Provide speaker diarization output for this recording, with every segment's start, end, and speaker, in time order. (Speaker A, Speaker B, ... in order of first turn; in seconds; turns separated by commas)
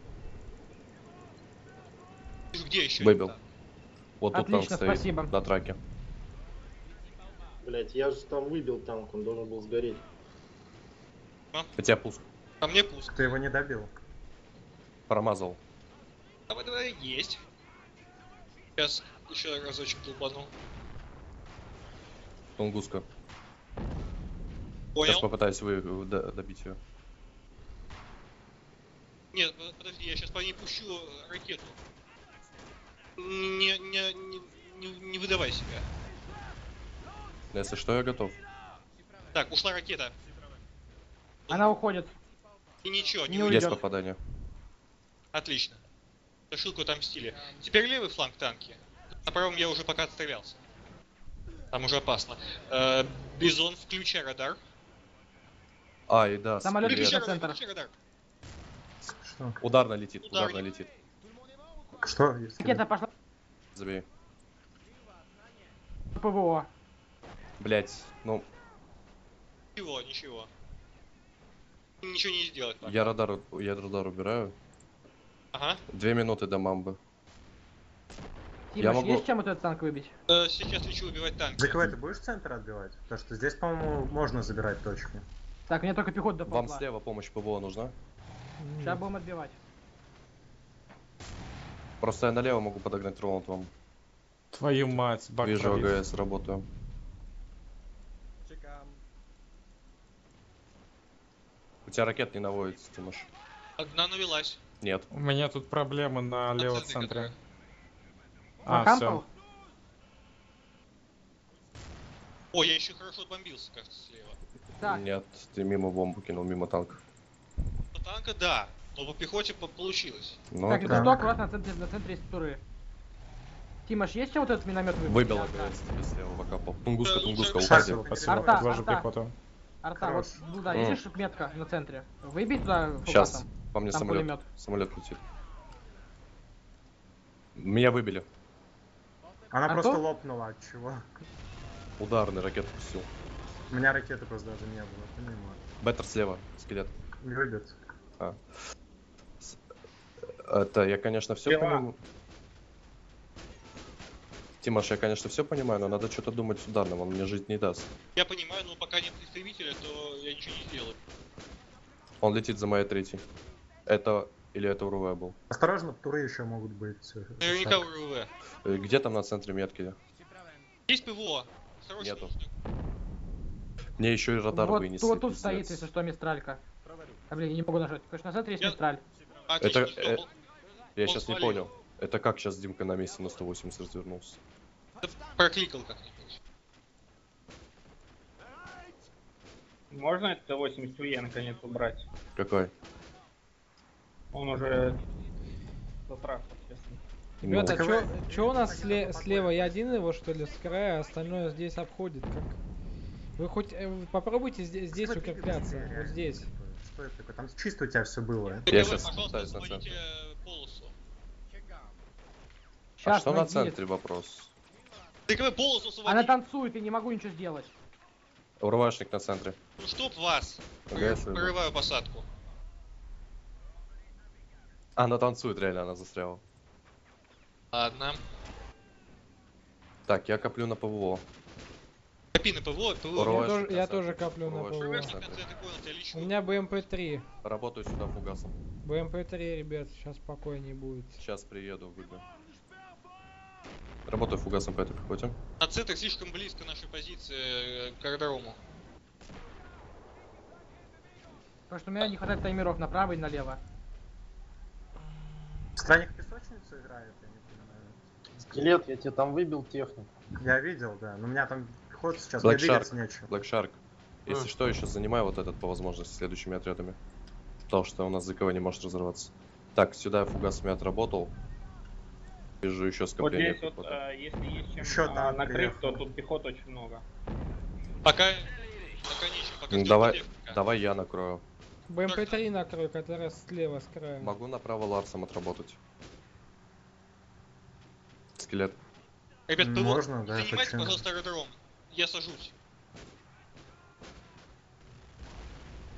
Speaker A: 2.5-3.4, Speaker B: 3.0-3.4, Speaker B: 4.2-5.8, Speaker C: 4.3-5.3, Speaker D: 7.6-10.0, Speaker B: 11.8-12.2, Speaker A: 12.6-13.2, Speaker E: 13.1-13.9, Speaker B: 15.1-15.6, Speaker A: 16.5-17.4, Speaker A: 18.8-20.5, Speaker B: 22.6-23.1, Speaker A: 24.9-25.3, Speaker B: 25.1-26.8, Speaker A: 29.3-31.8, Speaker A: 33.2-35.9, Speaker B: 37.5-38.4, Speaker A: 39.3-40.1, Speaker C: 41.5-42.1, Speaker A: 42.8-43.8, Speaker C: 43.3-43.8, Speaker B: 43.5-44.2, Speaker A: 45.3-45.8, Speaker A: 46.5-50.6, Speaker A: 51.7-54.6, Speaker B: 56.1-57.2, Speaker C: 56.6-57.6, Speaker A: 56.9-57.9, Speaker E: 59.2-59.6, Speaker B: 59.6-60.9, Speaker A: 60.2-60.6, Speaker E: 62.0-62.9, Speaker C: 62.6-63.1, Speaker B: 63.8-64.1, Speaker C: 66.2-66.7, Speaker B: 67.6-68.5, Speaker A: 69.8-70.5, Speaker A: 72.0-73.1, Speaker B: 72.8-74.5, Speaker A: 75.5-75.8, Speaker B: 75.9-77.0, Speaker C: 78.7-80.1, Speaker B: 78.8-79.3, Speaker A: 80.3-81.9, Speaker E: 81.6-85.2, Speaker C: 85.7-86.8, Speaker B: 86.5-88.0, Speaker F: 88.6-89.0, Speaker C: 88.8-89.6, Speaker B: 92.0-93.7, Speaker G: 94.5-96.0, Speaker B: 95.4-96.7, Speaker B: 101.9-103.3, Speaker A: 103.8-104.6, Speaker B: 104.8-105.1, Speaker G: 105.1-107.3, Speaker A: 106.6-107.3, Speaker G: 108.7-109.2, Speaker C: 108.7-109.2, Speaker A: 112.5-114.4, Speaker B: 114.8-117.0, Speaker A: 118.0-120.4, Speaker B: 120.5-121.2, Speaker C: 120.7-122.6, Speaker E: 120.8-121.4, Speaker C: 123.9-125.7, Speaker B: 125.1-128.0, Speaker A: 127.0-127.7, Speaker E: 127.7-128.9, Speaker G: 127.7-129.3, Speaker C: 128.3-129.1, Speaker C: 129.8-134.4, Speaker E: 130.0-130.8, Speaker B: 130.7-131.0, Speaker B: 133.1-135.2, Speaker B: 137.6-138.3, Speaker E: 139.5-141.0, Speaker C: 139.7-140.0, Speaker B: 142.0-143.1, Speaker E: 143.7-145.6, Speaker B: 145.8-146.9, Speaker E: 147.2-147.8, Speaker B: 150.3-152.0, Speaker H: 151.5-151.8, Speaker B: 154.6-157.9, Speaker A: 158.2-161.0, Speaker B: 162.2-163.2, Speaker B: 163.9-165.4, Speaker E: 165.5-167.9, Speaker A: 167.4-168.3, Speaker B: 168.6-170.0, Speaker A: 170.9-172.5, Speaker B: 172.0-172.3, Speaker B: 174.0-175.9, Speaker C: 174.5-176.6, Speaker C: 177.3-179.0, Speaker A: 179.5-180.3, Speaker B: 179.6-180.2, Speaker B: 181.0-184.4, Speaker A: 181.1-181.7, Speaker A: 185.0-186.4, Speaker H: 189.9-192.1, Speaker B: 192.4-192.7, Speaker H: 194.3-195.0, Speaker H: 196.1-197.0, Speaker B: 197.4-197.8, Speaker F: 197.4-202.6, Speaker E: 197.6-200.0, Speaker F: 203.4-206.5, Speaker E: 204.9-208.8, Speaker A: 208.7-210.9, Speaker B: 208.7-210.0, Speaker C: 213.0-213.8, Speaker B: 213.0-214.5, Speaker A: 215.3-216.3, Speaker C: 216.1-217.7, Speaker B: 218.6-219.6, Speaker A: 219.8-222.3, Speaker B: 220.9-221.6, Speaker B: 225.0-226.4, Speaker A: 227.7-228.2, Speaker B: 230.1-231.2, Speaker A: 232.3-233.5, Speaker B: 233.2-235.4, Speaker F: 233.2-235.1, Speaker A: 234.8-236.9, Speaker F: 236.1-237.3, Speaker B: 237.4-238.6, Speaker F: 238.8-241.2, Speaker B: 241.2-242.2, Speaker B: 244.1-245.4, Speaker A: 245.6-248.6, Speaker C: 251.7-253.6, Speaker E: 255.8-258.0, Speaker D: 258.4-260.1, Speaker E: 260.4-263.4, Speaker B: 262.4-267.0, Speaker D: 264.3-264.6, Speaker B: 267.7-271.3, Speaker B: 272.6-274.0, Speaker H: 273.2-277.0, Speaker E: 274.8-276.1, Speaker A: 278.0-280.6, Speaker B: 279.7-281.4, Speaker F: 281.9-284.3, Speaker A: 282.1-282.4, Speaker B: 284.2-285.8, Speaker B: 288.4-288.8, Speaker A: 289.5-292.5, Speaker E: 289.6-291.0